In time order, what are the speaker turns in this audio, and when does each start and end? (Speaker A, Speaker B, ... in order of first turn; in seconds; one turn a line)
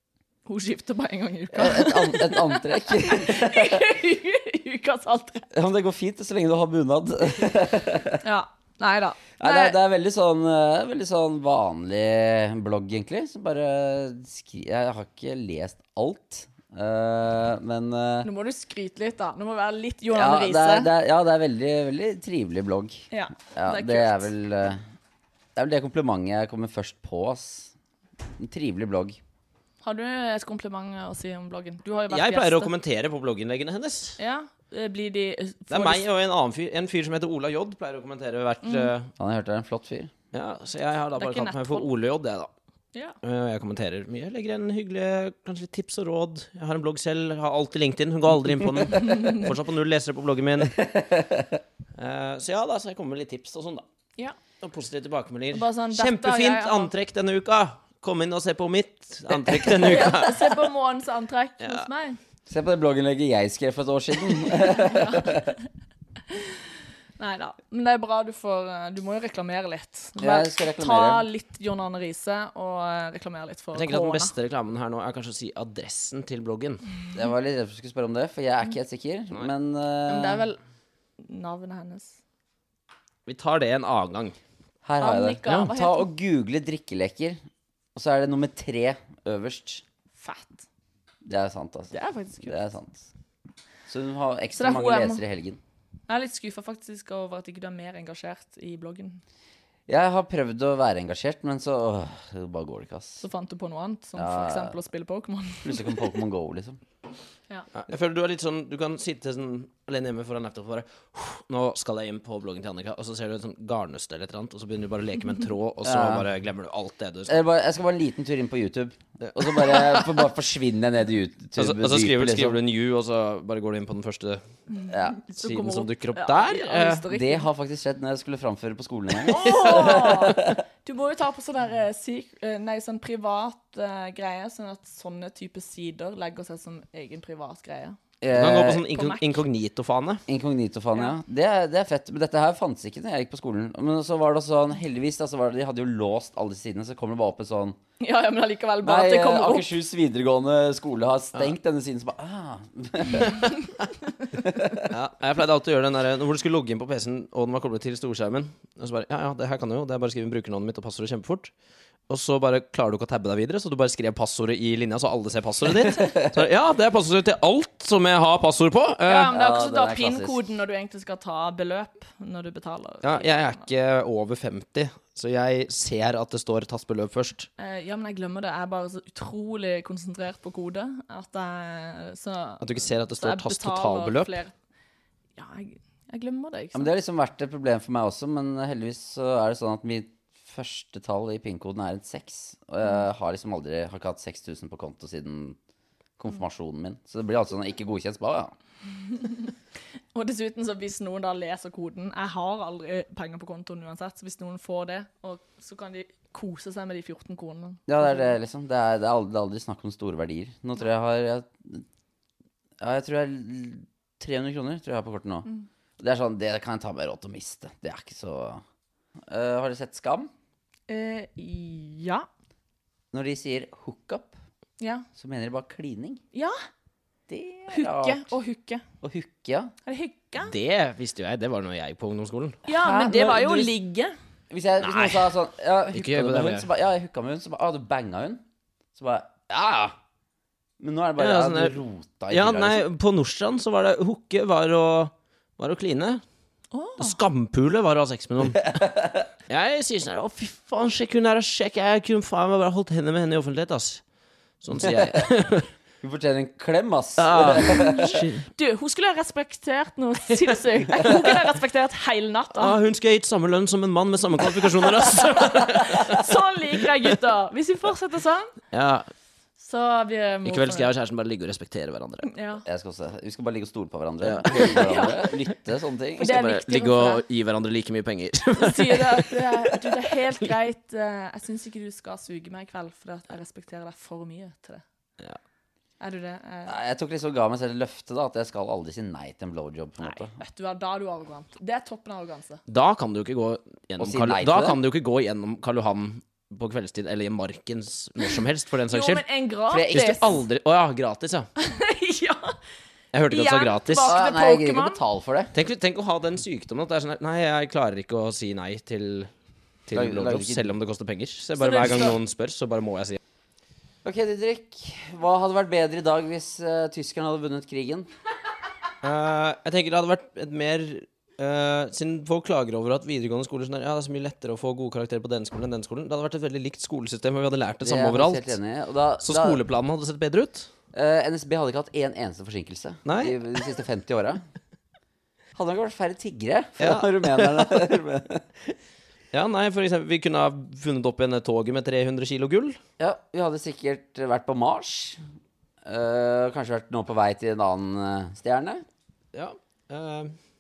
Speaker A: 0.5-5.5
Speaker B: 1.5-3.8
Speaker B: 5.5-8.2
Speaker A: 8.2-9.8
Speaker B: 9.4-18.3
Speaker A: 18.2-20.9
Speaker B: 20.1-24.8
Speaker A: 23.1-24.3
Speaker B: 25.6-27.7
Speaker B: 28.4-29.2
Speaker A: 29.8-32.7
Speaker C: 32.1-34.2
Speaker A: 34.2-36.1
Speaker C: 35.7-39.1
Speaker A: 38.6-38.9
Speaker B: 39.2-40.1
Speaker C: 40.3-42.5
Speaker A: 41.2-41.9
Speaker C: 43.2-50.9
Speaker B: 50.7-51.6
Speaker C: 52.0-53.8
Speaker C: 54.6-60.7
Speaker A: 55.5-56.9
Speaker A: 59.7-62.2
Speaker C: 61.6-61.9
Speaker B: 62.5-65.5
Speaker A: 64.5-65.6
Speaker A: 66.3-74.3
Speaker B: 70.2-71.2
Speaker C: 73.7-76.8
Speaker B: 77.1-80.4
Speaker A: 80.1-80.6
Speaker A: 81.2-82.2
Speaker C: 83.2-84.3
Speaker B: 84.8-87.4
Speaker A: 85.0-86.1
Speaker B: 87.9-89.8
Speaker A: 90.2-90.6
Speaker B: 91.2-93.1
Speaker A: 91.9-92.7
Speaker B: 93.9-95.6
Speaker A: 94.5-95.2
Speaker A: 96.1-99.2
Speaker B: 99.9-103.2
Speaker A: 103.2-106.2
Speaker B: 104.2-104.8
Speaker B: 105.6-106.8
Speaker C: 107.8-117.4
Speaker B: 115.8-116.3
Speaker B: 117.3-122.6
Speaker C: 119.2-120.3
Speaker C: 121.5-124.4
Speaker A: 124.7-127.5
Speaker B: 124.9-125.2
Speaker C: 125.4-127.0
Speaker B: 127.1-130.6
Speaker A: 129.3-138.0
Speaker B: 138.2-138.8
Speaker C: 138.3-140.2
Speaker A: 138.9-139.2
Speaker B: 140.3-147.8
Speaker A: 148.0-149.7
Speaker B: 148.8-153.5
Speaker C: 153.2-153.5
Speaker B: 154.3-154.9
Speaker C: 154.9-161.5
Speaker C: 162.1-169.3
Speaker B: 165.9-166.4
Speaker A: 169.1-173.7
Speaker B: 169.3-170.5
Speaker C: 173.0-177.5
Speaker A: 177.6-184.5
Speaker C: 182.6-184.4
Speaker A: 185.3-186.9
Speaker B: 186.7-195.6
Speaker B: 196.2-198.5
Speaker A: 200.1-208.3
Speaker B: 207.9-211.8
Speaker B: 212.8-215.5
Speaker B: 216.0-218.6
Speaker B: 219.3-220.3
Speaker A: 220.9-222.2
Speaker B: 223.1-224.3
Speaker A: 224.8-225.1
Speaker B: 225.2-226.2
Speaker B: 227.3-228.3
Speaker A: 227.7-228.8
Speaker B: 229.0-229.7
Speaker A: 229.8-230.5
Speaker C: 230.4-232.6
Speaker A: 232.7-234.1
Speaker B: 232.7-233.7
Speaker B: 234.5-238.4
Speaker C: 234.8-235.3
Speaker C: 235.9-236.7
Speaker B: 238.9-239.9
Speaker B: 240.8-242.8
Speaker C: 241.2-241.8
Speaker C: 242.3-246.2
Speaker A: 246.7-247.2
Speaker C: 247.0-248.7
Speaker B: 248.5-249.3
Speaker C: 249.5-254.0
Speaker C: 254.6-255.7
Speaker B: 254.8-255.2
Speaker B: 256.0-258.1
Speaker C: 257.2-258.5
Speaker A: 257.8-262.8
Speaker C: 261.0-261.5
Speaker C: 262.6-267.1
Speaker A: 265.0-268.5
Speaker C: 268.7-269.1
Speaker A: 269.6-270.9
Speaker C: 270.4-272.3
Speaker A: 272.2-272.6
Speaker B: 272.6-276.5
Speaker C: 274.2-274.9
Speaker A: 274.5-275.2
Speaker A: 276.2-277.2
Speaker C: 276.2-280.2
Speaker A: 278.6-284.8
Speaker A: 286.0-286.8
Speaker B: 286.7-290.4
Speaker A: 290.0-292.6
Speaker C: 292.7-299.2
Speaker B: 294.0-294.8
Speaker A: 298.9-300.4
Speaker B: 299.7-300.1
Speaker C: 299.9-301.5
Speaker A: 301.6-302.6
Speaker C: 303.1-304.1
Speaker A: 303.3-305.0
Speaker B: 304.0-305.5
Speaker C: 305.5-309.3
Speaker C: 309.9-313.2
Speaker B: 309.9-310.7
Speaker A: 311.6-312.2
Speaker B: 314.0-318.1
Speaker C: 319.0-328.6
Speaker B: 327.8-329.6
Speaker C: 329.2-330.7
Speaker B: 330.9-334.4
Speaker C: 333.1-333.4
Speaker B: 335.5-338.7
Speaker C: 336.8-337.6
Speaker C: 339.3-342.8
Speaker B: 343.0-345.2
Speaker B: 345.8-348.9
Speaker C: 349.3-350.3